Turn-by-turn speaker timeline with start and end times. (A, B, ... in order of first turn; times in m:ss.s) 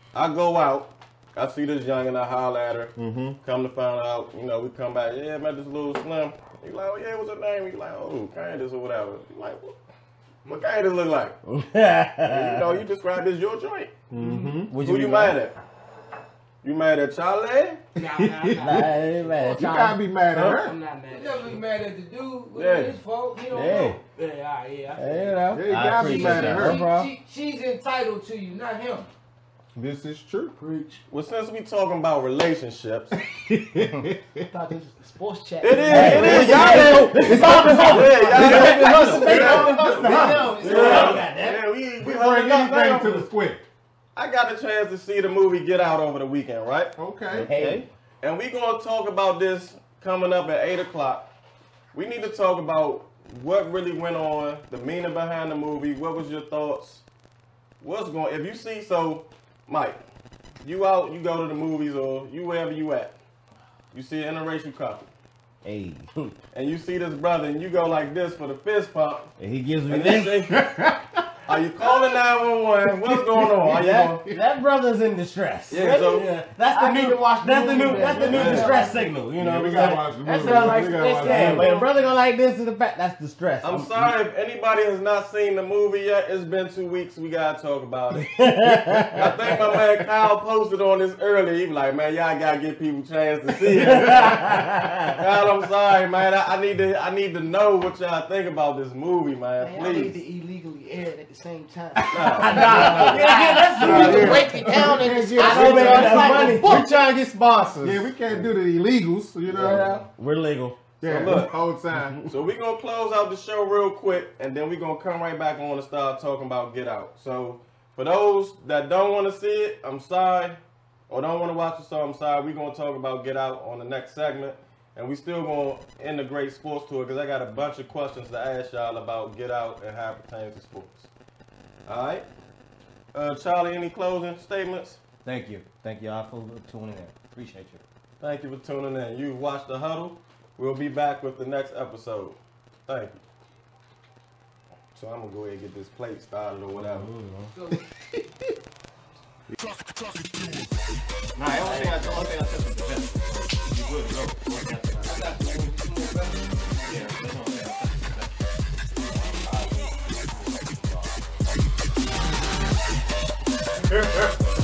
0:00.1-0:09.8 A
0:03.0-0:03.4 B
0:10.4-0:11.4 A
0:11.4-0:12.8 C
0:12.2-0:13.9 A
0:14.1-0:14.8 B
0:14.2-0:14.6 D
0:14.7-0:15.4 E
0:14.8-0:15.5 A
0:16.6-0:17.8 A
0:18.0-0:21.6 D
0:18.0-0:18.9 B
0:18.6-0:19.7 C
0:19.5-0:20.8 B
0:20.3-0:20.6 A
0:21.1-0:24.0 F
0:22.5-0:23.0 A
0:23.5-0:24.0 C
0:24.2-0:25.5 D
0:25.0-0:27.1 C
0:25.5-0:26.8 B
0:25.6-0:26.8 E
0:26.1-0:29.1 F
0:29.8-0:30.5 B
0:30.6-0:31.0 D
0:31.1-0:33.2 A
0:33.2-0:34.4 B
0:34.4-0:40.9 D
0:35.6-0:39.8 A
0:35.9-0:41.6 C
0:35.9-0:41.3 E
0:36.0-0:37.7 B
0:39.1-0:41.2 B
0:40.6-0:43.3 A
0:42.0-0:43.6 B
0:44.1-0:51.3 A
0:47.0-0:47.5 B
0:47.5-0:47.8 E
0:51.9-0:57.0 A
0:57.8-1:00.0 A
1:00.6-1:03.2 A
1:03.9-1:05.0 A
1:05.6-1:06.3 C
1:06.5-1:09.3 A
1:09.4-1:10.3 C
1:09.9-1:10.7 A
1:10.5-1:11.3 B
1:11.5-1:14.2 A
1:13.4-1:14.4 B
1:13.6-1:24.1 C
1:15.7-1:16.3 A
1:16.7-1:19.1 D
1:17.7-1:18.8 A
1:17.8-1:21.7 B
1:20.2-1:21.7 D
1:20.3-1:21.8 F
1:23.6-1:40.2 A
1:28.1-1:29.5 C
1:29.0-1:30.0 B
1:33.7-1:35.2 C
1:33.8-1:34.2 B
1:39.6-1:46.8 D
1:42.1-1:43.2 A
1:42.1-1:46.9 C
1:42.4-1:44.3 E
1:43.8-1:47.0 B
1:45.4-1:48.1 E
1:47.8-1:50.0 B
1:49.5-1:51.4 C
1:51.0-1:52.2 B
1:51.0-1:51.6 A
1:52.2-2:00.6 A
2:01.1-2:11.1 A
2:11.8-2:12.2 A
2:13.1-2:15.0 A
2:15.2-2:17.8 E
2:18.2-2:23.2 A
2:24.9-2:27.1 A
2:26.7-2:27.5 C
2:27.5-2:27.8 F
2:31.4-2:35.5 E
2:35.0-2:37.3 F
2:36.8-2:38.3 E
2:39.1-2:41.2 E
2:44.0-2:44.3 B